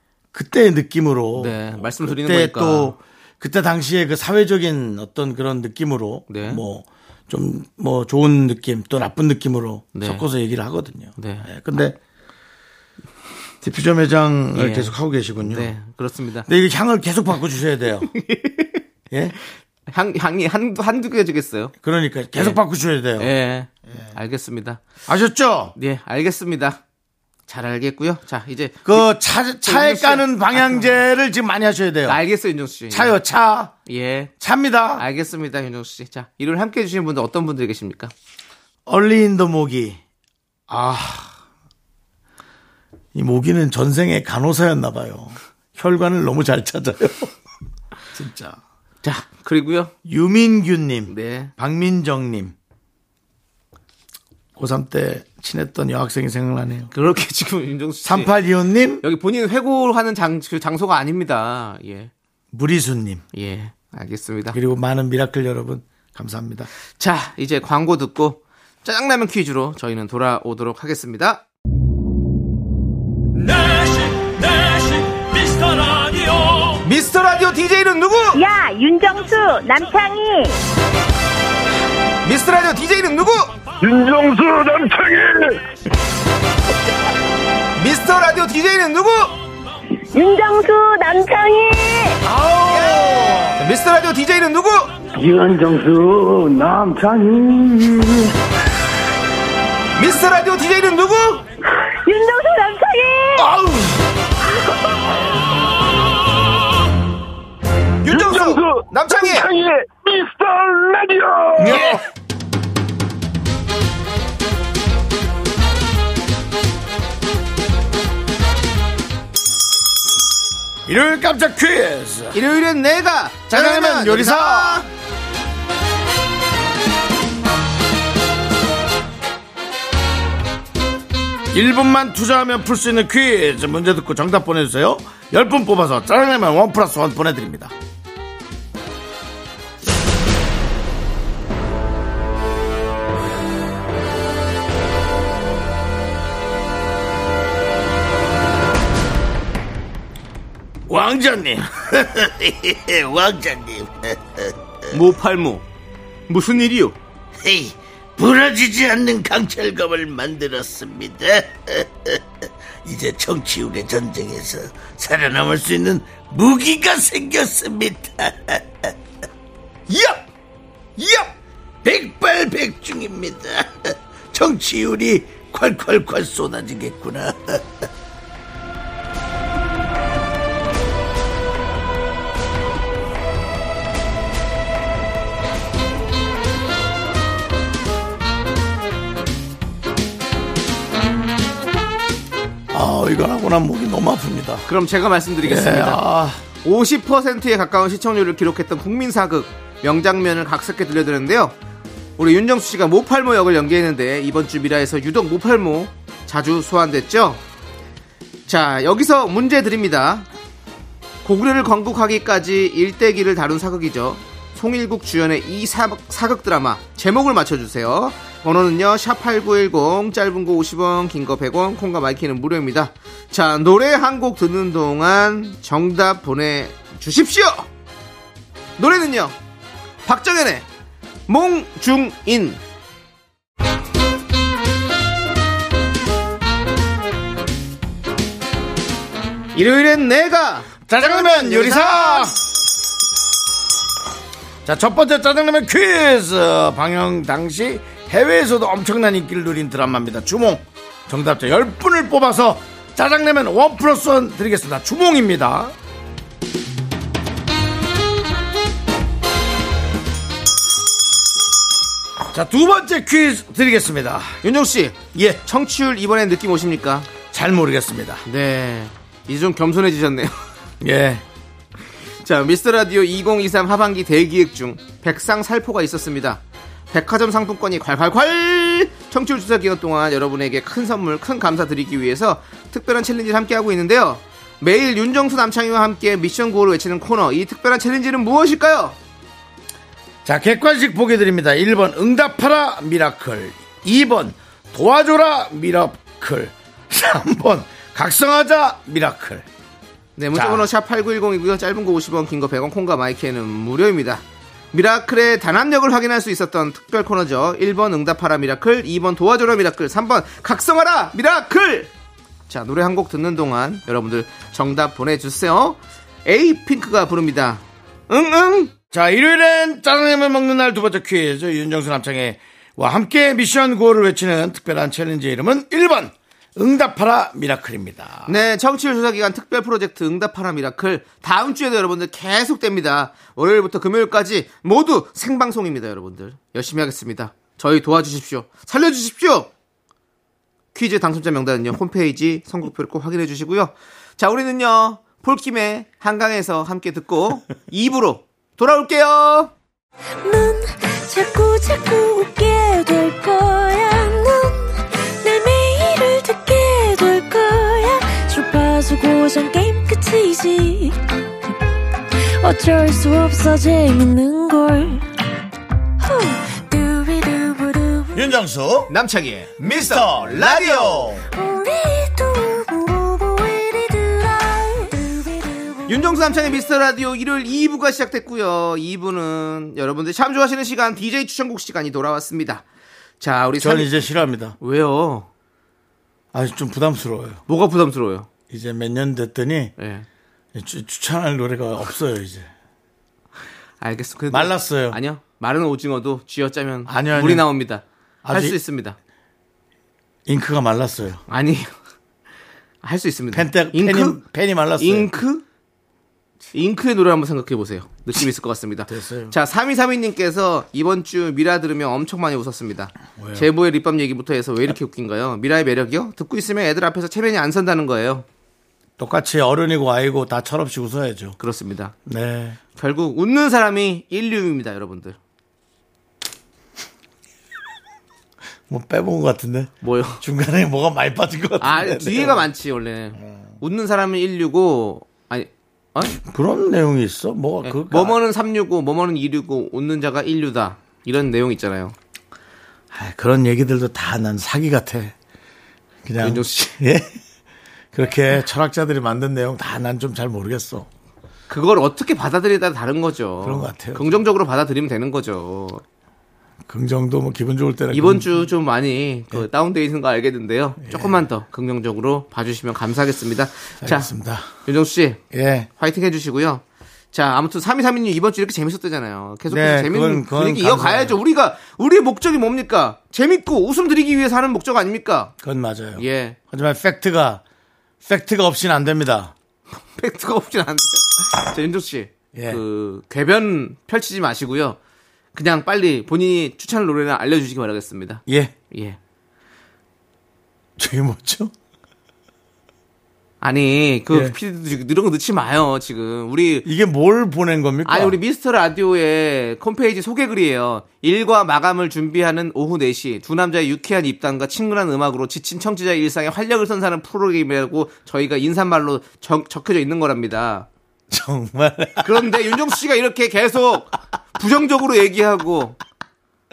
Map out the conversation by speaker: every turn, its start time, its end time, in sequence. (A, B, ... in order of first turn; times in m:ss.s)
0:00.3-0:12.0 A
0:01.4-0:03.0 B
0:06.3-0:06.6 B
0:09.9-0:10.2 B
0:11.2-0:11.5 B
0:13.6-0:15.7 A
0:14.5-0:16.5 B
0:16.5-0:18.1 A
0:18.1-0:18.8 B
0:19.9-0:21.7 B
0:21.8-0:23.3 A
0:23.2-0:24.8 B
0:25.1-0:25.8 A
0:25.8-0:26.8 B
0:27.5-0:29.1 B
0:28.8-0:32.2 A
0:29.6-0:31.0 B
0:32.1-0:33.2 B
0:32.9-0:33.7 A
0:33.9-0:34.3 B
0:34.4-0:35.0 A
0:35.0-0:38.1 B
0:38.9-0:40.0 A
0:40.7-0:41.3 A
0:43.1-0:47.3 A
0:48.2-0:48.6 A
0:49.0-0:49.9 B
0:50.0-0:52.6 A
0:51.1-0:51.5 B
0:54.6-0:56.9 A
0:56.9-0:58.3 B
0:58.0-0:59.0 A
0:59.0-1:02.1 B
1:02.5-1:03.2 A
1:03.3-1:04.6 B
1:04.5-1:06.7 A
1:07.0-1:11.4 B
1:13.3-1:16.9 C
1:16.8-1:18.4 B
1:18.4-1:20.6 D
1:22.2-1:23.5 B
1:23.8-1:25.6 E
1:27.8-1:29.3 B
1:30.1-1:32.2 D
1:32.4-1:33.6 A
1:32.6-1:34.9 B
1:35.1-1:38.3 E
1:40.0-1:41.4 B
1:42.0-1:43.5 D
1:43.4-1:44.0 A
1:48.0-1:49.5 B
1:48.1-1:52.0 E
1:51.6-1:52.0 A
2:00.9-2:02.4 A
2:02.3-2:04.9 B
2:03.5-2:04.9 A
2:11.5-2:17.7 A
2:30.9-2:34.6 A
2:34.9-2:35.6 B
2:36.3-2:37.0 B
2:37.4-2:42.2 A
2:42.8-2:49.0 A
2:49.9-2:50.2 A
2:51.0-2:51.3 A
2:51.8-2:57.7 A
3:12.7-3:14.6 A
3:14.7-3:16.0 B
3:15.4-3:16.4 A
3:16.6-3:21.6 B
3:22.2-3:27.4 B
3:28.5-3:30.3 B
3:31.2-3:47.7 B
3:48.8-3:49.4 B
3:50.0-3:50.7 B
3:51.3-3:52.6 B
3:59.5-4:02.3 B
4:00.9-4:02.4 A
4:04.6-4:15.7 A
4:22.3-4:24.4 A
4:24.4-4:27.1 B
4:27.3-4:28.2 A
4:28.2-4:30.4 B
4:30.8-4:31.2 A
4:32.2-4:36.4 B
4:36.9-4:49.0 B
4:50.2-4:59.5 A
5:00.2-5:11.9 B
5:00.3-5:00.7 A
5:12.5-5:18.7 B
5:18.9-5:28.4 A
5:28.3-5:39.5 B
5:40.7-5:49.5 B
5:50.2-6:01.0 F
6:02.4-6:05.0 F
6:06.0-6:08.3 F
6:08.1-6:08.9 A
6:08.9-6:11.2 B
6:09.7-6:11.3 A
6:11.3-6:16.0 F
6:15.9-6:22.6 B
6:23.2-6:24.0 B
6:23.6-6:24.6 A
6:24.6-6:25.3 B
6:26.3-6:27.4 A
6:27.5-6:28.3 B
6:28.5-6:29.7 A
6:29.8-6:30.1 B
6:30.6-6:32.5 A
6:33.8-6:39.0 B
6:34.3-6:35.0 A
6:36.9-6:37.5 A
6:38.2-6:38.6 A
6:40.3-6:41.2 A
6:41.3-6:41.7 B
6:42.8-6:44.2 B
6:43.3-6:45.1 A
6:44.8-6:45.4 B
6:46.5-6:58.2 B
6:48.9-6:49.4 A
6:53.2-6:53.5 A
6:59.0-7:01.4 A
7:01.4-7:01.9 B
7:02.1-7:02.6 A
7:02.8-7:05.2 B
7:08.7-7:12.5 A
7:09.8-7:10.2 B
7:11.6-7:16.2 B
7:16.1-7:18.2 A
7:17.6-7:22.0 B
7:22.9-7:25.2 A
7:26.0-7:27.2 A
7:26.2-7:26.7 B
7:27.9-7:30.9 A
7:31.5-7:35.8 B
7:33.4-7:34.2 A
7:36.7-7:38.5 A
7:37.9-7:44.1 B
7:40.9-7:41.2 A
7:43.8-7:44.5 A
7:44.6-7:45.2 B
7:45.3-7:45.7 A
7:45.8-7:55.3 B
7:49.5-7:51.2 A
7:55.4-7:57.4 A
7:56.0-7:56.4 B
7:58.0-7:59.3 A
7:59.9-8:04.8 B
8:02.3-8:02.6 A
8:05.3-8:09.0 B
8:08.3-8:08.5 A
8:10.8-8:11.5 A
8:13.4-8:16.7 B
8:16.6-8:18.2 A
8:17.8-8:30.7 B
8:31.1-8:32.4 A
8:32.0-8:35.8 B